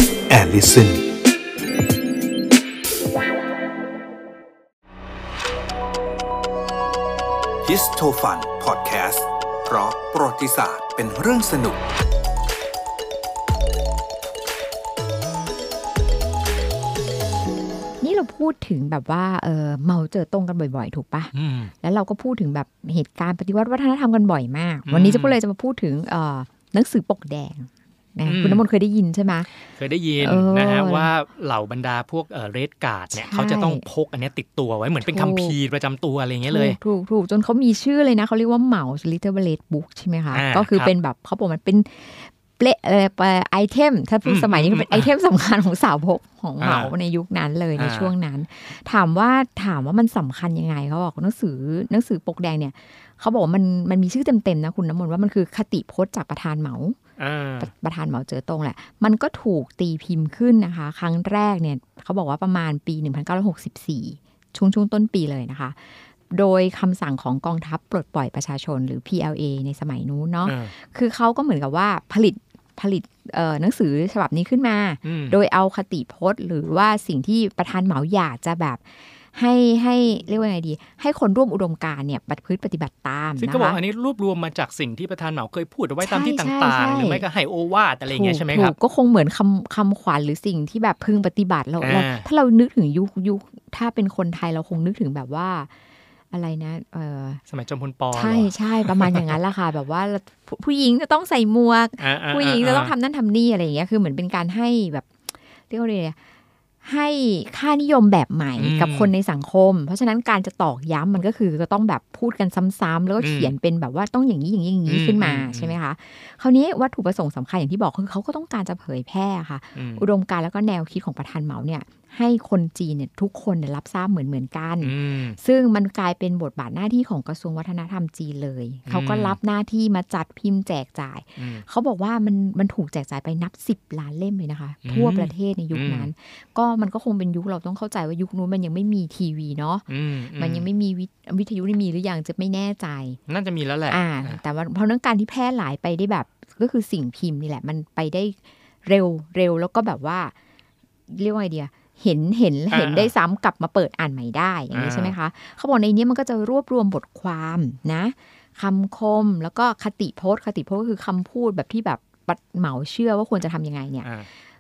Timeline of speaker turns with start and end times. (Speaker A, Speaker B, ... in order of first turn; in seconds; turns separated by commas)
Speaker A: 0.3-1.0, Speaker A: 7.6-11.8, Speaker B: 18.0-29.5, Speaker C: 21.3-21.7, Speaker C: 24.9-25.4, Speaker C: 28.3-28.6, Speaker C: 29.6-36.8, Speaker B: 30.2-31.1, Speaker B: 33.1-33.9, Speaker B: 35.0-35.6, Speaker B: 36.5-57.0, Speaker C: 40.3-40.9, Speaker C: 44.3-45.1, Speaker C: 46.6-46.9, Speaker C: 47.8-48.1, Speaker C: 57.2-57.7, Speaker B: 57.6-83.8, Speaker C: 70.5-70.7, Speaker C: 75.0-75.4, Speaker C: 83.4-88.8, Speaker B: 86.0-87.2, Speaker B: 88.1-95.7, Speaker C: 91.8-92.3, Speaker B: 96.3-97.4, Speaker C: 97.5-99.4, Speaker B: 98.1-105.1, Speaker C: 102.0-103.0, Speaker B: 105.7-106.2, Speaker B: 106.8-143.2, Speaker C: 108.6-109.1, Speaker C: 113.2-113.5, Speaker C: 114.9-115.8, Speaker C: 119.8-120.0, Speaker C: 124.8-125.4, Speaker C: 128.9-129.4, Speaker C: 131.4-131.7, Speaker C: 134.8-136.1, Speaker C: 139.9-140.7, Speaker C: 143.3-144.4, Speaker B: 143.9-150.3, Speaker B: 151.1-164.1, Speaker C: 152.7-153.1, Speaker C: 154.7-155.2, Speaker C: 164.0-164.3